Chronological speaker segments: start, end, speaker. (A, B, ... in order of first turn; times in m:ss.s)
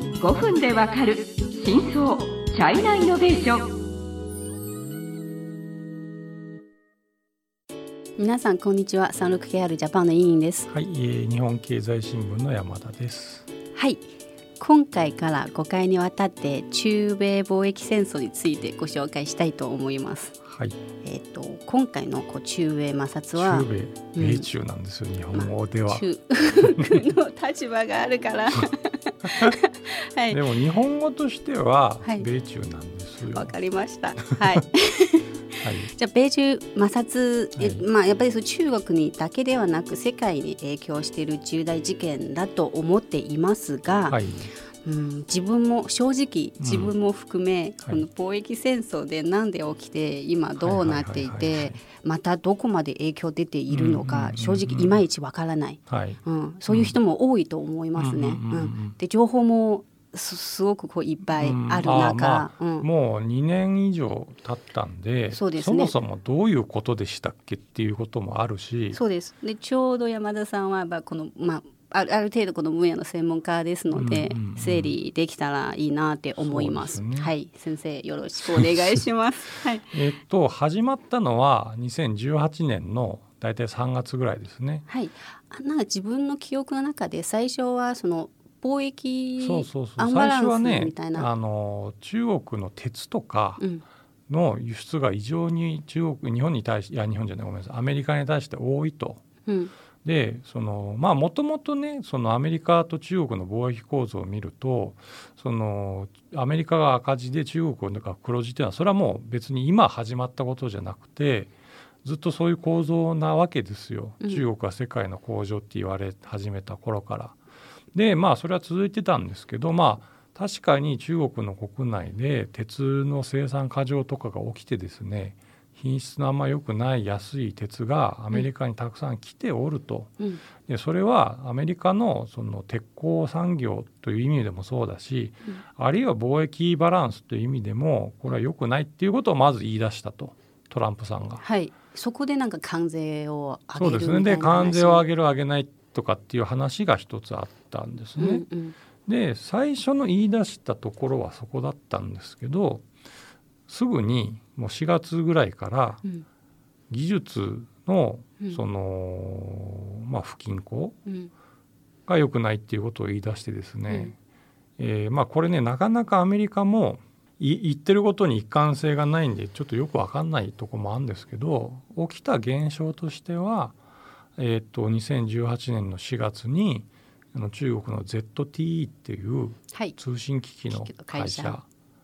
0:00.2-0:03.7 A
0:08.2-0:10.7 B
0:10.7-0:13.5 C
0:13.7-0:20.4 B
0:20.4-0:20.8 C
0:21.0-0:24.5 B
0:23.3-0:26.0 C
0:25.3-0:30.4 B
0:26.6-0:27.0 C
0:29.2-0:29.6 C
0:30.3-0:33.5 C
0:33.3-0:44.2 B
0:34.2-0:34.6 C
0:35.6-0:35.9 C
0:37.6-0:37.8 C
0:44.1-0:44.5 C
0:44.8-1:02.9 B
0:46.6-0:46.9 C
0:50.6-0:51.8 C
0:53.7-0:55.0 C
0:55.9-0:57.0 C
0:57.9-0:59.0 C
1:01.3-1:09.0 C
1:05.3-1:05.9 B
1:08.9-1:20.0 B
1:13.9-1:14.9 C
1:16.4-1:17.3 C
1:19.9-1:24.8 C
1:24.9-1:31.3 B
1:29.4-1:33.6 C
1:33.6-1:33.8 B
1:34.3-1:39.2 C
1:39.4-1:39.7 B
1:40.0-1:51.5 C
1:52.0-1:57.4 C
1:54.2-1:54.4 B
1:57.9-2:21.4 C
2:21.4-2:25.0 B
2:23.8-2:28.4 C
2:28.2-2:28.8 B
2:29.0-2:32.8 C
2:33.7-2:36.0 C
2:36.9-2:41.0 C
2:41.0-2:41.3 B
2:42.1-2:44.2 C
2:43.9-2:44.1 B
2:44.8-2:53.8 C
2:54.4-3:01.6 C
2:59.7-3:00.0 B
3:00.7-3:01.6 B